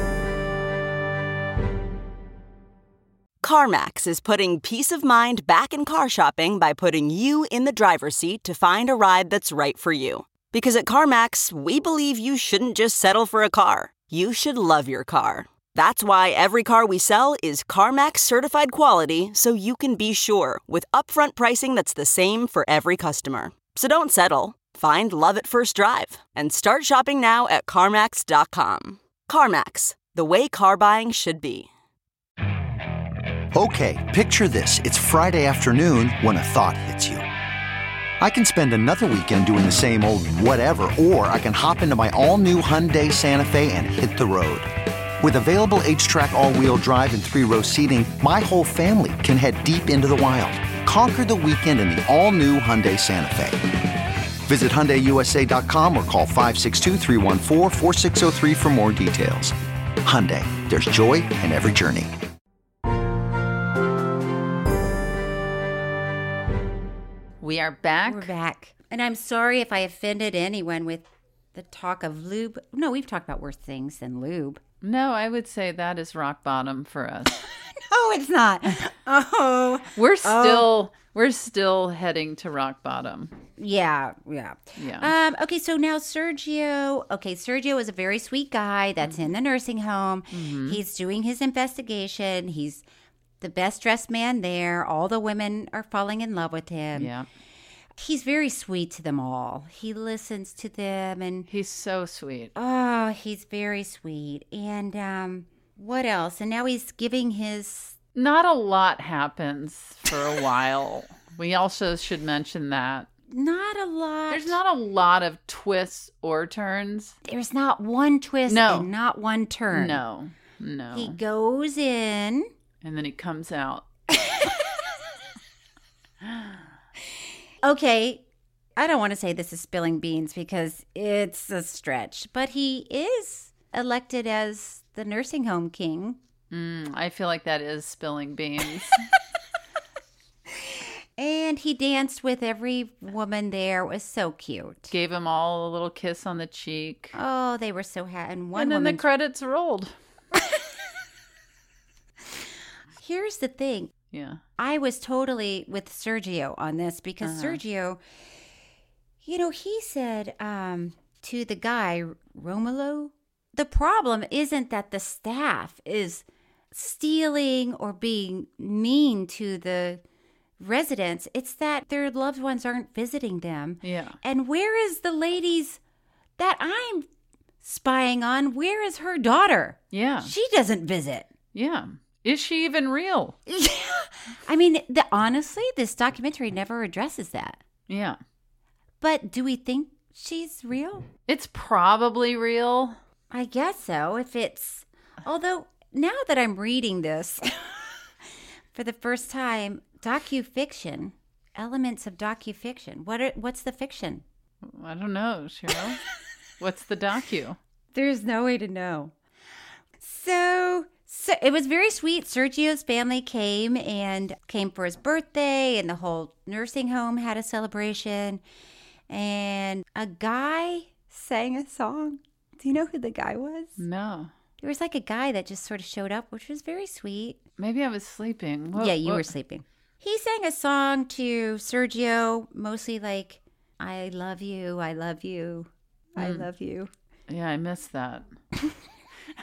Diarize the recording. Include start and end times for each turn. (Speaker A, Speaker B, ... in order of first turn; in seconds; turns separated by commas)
Speaker A: 3.4-31.7, Speaker B: 33.5-37.2, Speaker B: 38.2-53.7, Speaker B: 54.5-62.1, Speaker C: 67.4-68.3, Speaker D: 68.0-74.6, Speaker C: 74.8-77.4, Speaker D: 77.4-80.7, Speaker C: 80.0-83.3, Speaker D: 83.6-92.8, Speaker C: 84.8-85.1, Speaker C: 90.3-90.8, Speaker D: 93.4-97.1, Speaker C: 97.0-97.3, Speaker D: 98.0-101.5, Speaker C: 101.5-102.5, Speaker D: 102.6-108.0, Speaker C: 108.2-113.1, Speaker D: 113.3-114.6, Speaker C: 114.3-117.2, Speaker D: 117.3-120.0, Speaker C: 118.5-118.9, Speaker C: 119.7-121.2, Speaker D: 120.9-122.5, Speaker C: 122.8-123.9, Speaker D: 124.2-124.5, Speaker C: 126.2-126.5, Speaker D: 127.6-128.2, Speaker D: 128.8-136.2, Speaker C: 136.5-139.1, Speaker D: 140.5-144.9, Speaker C: 144.9-147.2, Speaker D: 147.1-149.1, Speaker C: 148.6-149.9, Speaker D: 150.4-150.6, Speaker D: 153.0-153.9, Speaker C: 154.1-154.4, Speaker D: 154.6-158.0, Speaker C: 157.2-157.6, Speaker D: 159.2-170.0, Speaker D: 170.6-175.8, Speaker C: 173.8-174.2, Speaker D: 176.4-177.1, Speaker D: 177.6-181.3, Speaker C: 179.9-180.3, Speaker C: 181.6-183.4, Speaker D: 183.5-187.6, Speaker C: 187.9-188.2, Speaker D: 189.0-191.1, Speaker C: 191.3-193.0, Speaker D: 193.3-197.9, Speaker D: 198.7-204.2, Speaker C: 204.6-206.0, Speaker C: 206.6-207.6, Speaker D: 207.9-209.1, Speaker D: 210.0-218.4, Speaker D: 219.1-223.8, Speaker C: 223.8-224.3, Speaker D: 224.6-227.4, Speaker C: 227.6-229.3, Speaker D: 228.8-236.9, Speaker C: 236.2-236.5, Speaker C: 237.3-238.3